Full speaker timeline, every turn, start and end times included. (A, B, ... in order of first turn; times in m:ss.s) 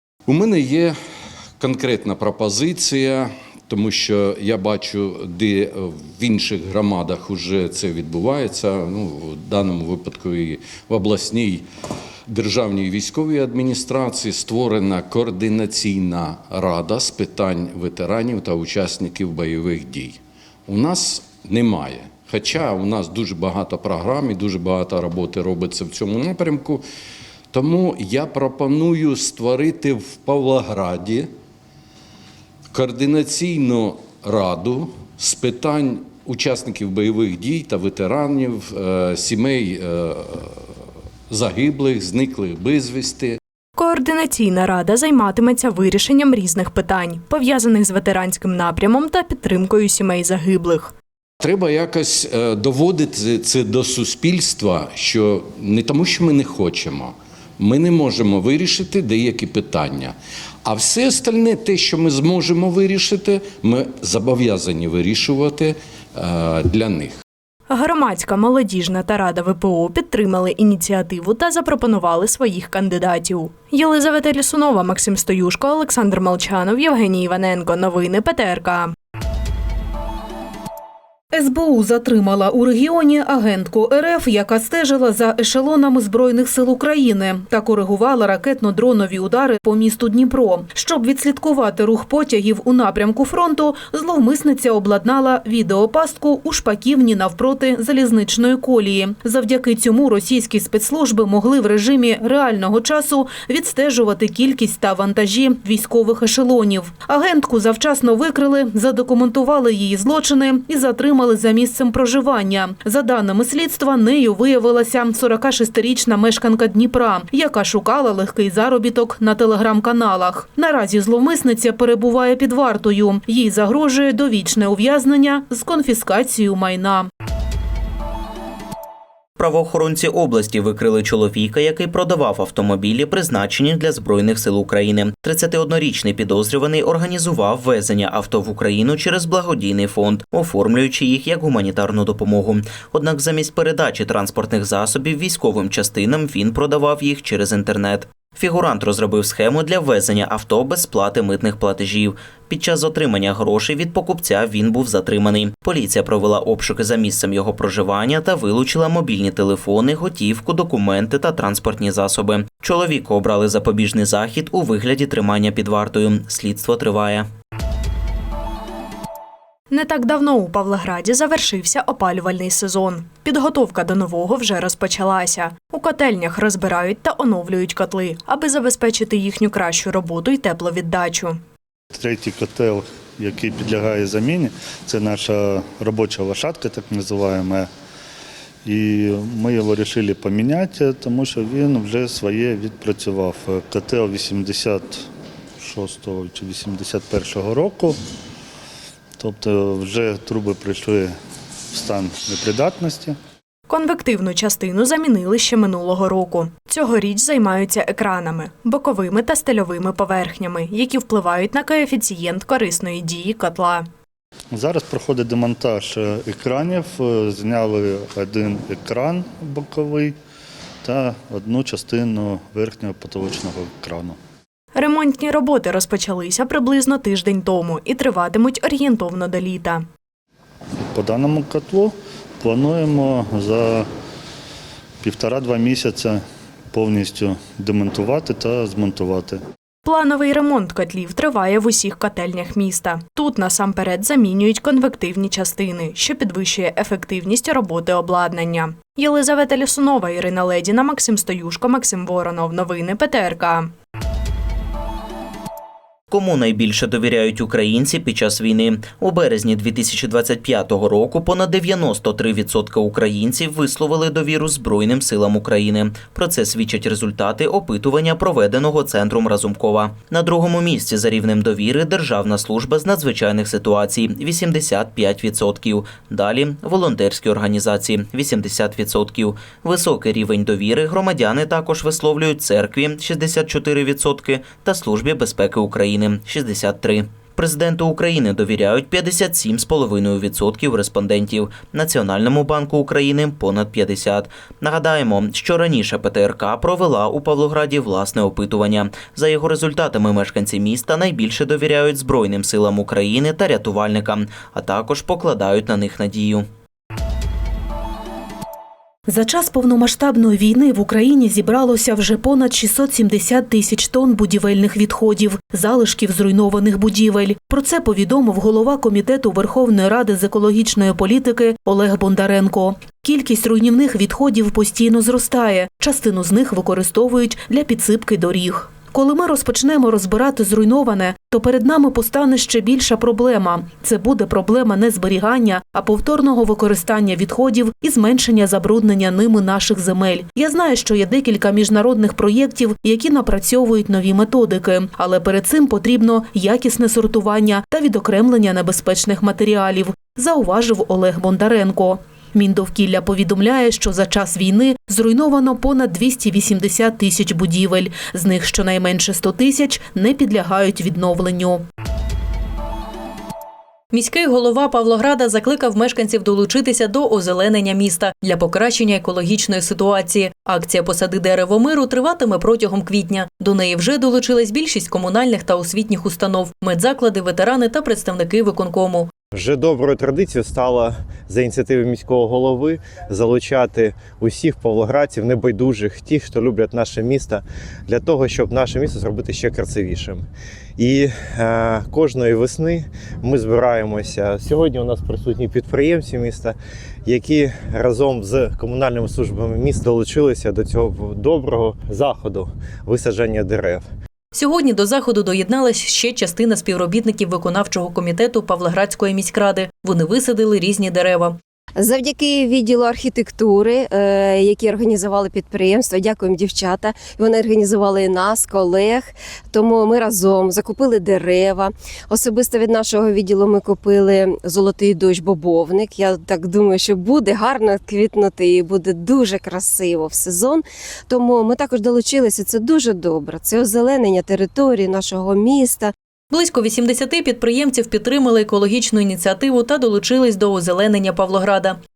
0:00.3-0:01.0 A
0:01.6-0:11.6 A
0:12.3-0:26.8 A
0:27.5-0:31.3 A
0:32.7-0:40.7 A
0:41.3-0:43.4 A
0:43.8-0:50.9 B
0:51.4-1:07.2 A
1:07.7-1:18.9 B
1:21.3-2:07.1 C
2:09.4-2:47.3 D
2:49.7-3:01.4 B
3:01.9-3:07.7 E
3:08.6-3:15.1 E
3:15.6-3:18.0 E
3:19.2-3:21.2 E
3:21.7-3:23.2 E
3:23.7-3:33.9 B
3:34.5-3:40.2 E
3:40.8-3:44.2 E
3:44.8-3:49.9 B
3:50.9-3:53.9 E
3:55.0-3:59.4 E
3:59.8-4:13.7 B
4:16.1-5:06.5 D
5:09.1-6:01.6 C
6:03.9-6:19.1 F
6:19.3-6:30.2 G
6:30.8-6:43.8 G
6:44.3-6:51.4 F
6:51.8-7:15.9 H
7:16.3-7:21.8 F